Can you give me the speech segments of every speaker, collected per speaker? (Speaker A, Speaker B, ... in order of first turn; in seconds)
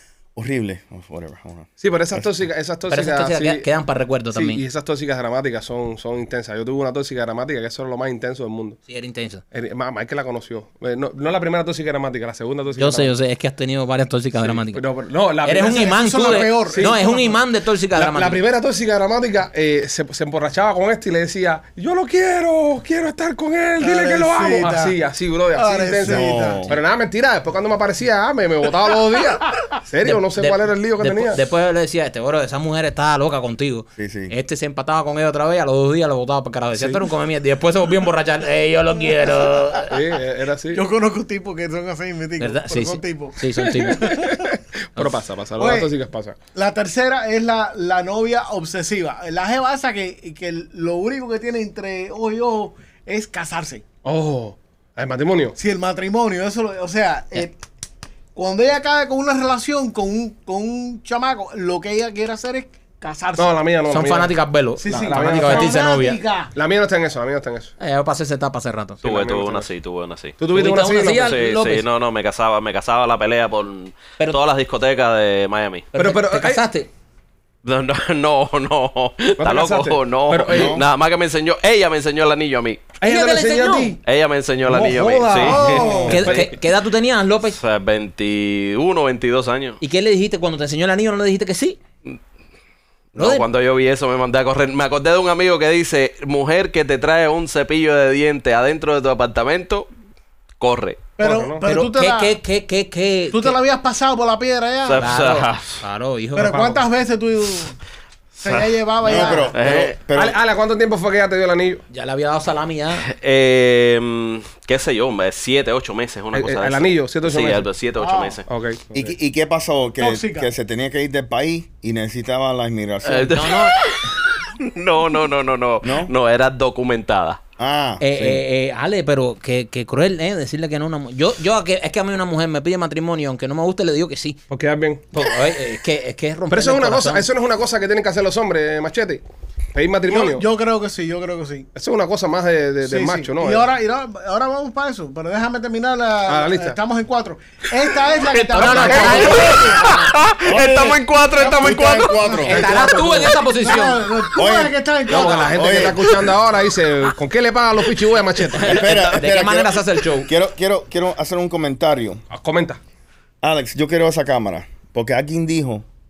Speaker A: 0.3-2.2, 26.0-26.8, 34.0-34.3, 80.5-80.8, 109.0-110.4, 118.9-123.4, 125.8-126.1, 127.6-128.4, 150.4-152.6, 154.3-154.7, 155.5-156.2, 158.6-162.2, 163.4-165.8
Speaker B: 1.8-3.6, 4.3-8.8, 9.5-13.1, 14.4-17.0, 17.9-31.4, 36.7-37.0, 39.9-40.8, 43.9-46.3, 54.0-55.5, 63.4-65.8, 66.5-67.7, 69.0-69.7, 70.4-71.3, 76.0-76.6, 79.4-80.8, 83.0-84.0, 84.7-86.5, 101.2-101.6, 106.5-106.8, 110.1-111.8, 116.3-117.7, 118.5-119.1, 134.5-135.1, 136.5-139.2, 139.7-140.4, 141.7-143.7, 146.2-146.8, 152.4-153.3, 155.1-158.8, 162.3-162.8
Speaker C: 2.9-4.6, 8.9-9.4, 12.8-14.8, 15.4-18.4, 30.0-39.9, 42.4-44.2, 63.9-66.2, 67.8-69.0, 70.5-71.8, 75.9-76.9, 83.0-84.0, 86.1-87.6, 89.8-91.8, 93.2-93.5, 101.6-103.6, 105.0-106.7, 111.9-113.1, 123.3-123.8, 128.0-134.4, 135.1-137.2, 148.5-149.9, 152.4-154.0, 158.6-160.3
Speaker D: 15.6-17.4, 23.8-24.9, 25.6-26.7, 40.7-44.5, 45.6-45.9, 46.5-53.8, 55.6-57.5, 58.3-63.5, 64.8-66.5, 85.2-86.3, 101.2-102.3, 103.3-105.1, 106.3-107.8, 108.4-109.5, 118.0-118.4, 120.0-120.5, 140.1-141.7, 142.8-150.1, 151.4-152.9, 153.6-155.8
Speaker E: 69.0-70.3, 71.2-75.9, 77.6-83.0, 84.0-86.5, 87.6-89.8, 93.1-99.9, 100.6-101.1, 104.8-105.8, 108.4-110.0, 113.0-118.4, 123.0-127.4, 148.3-152.4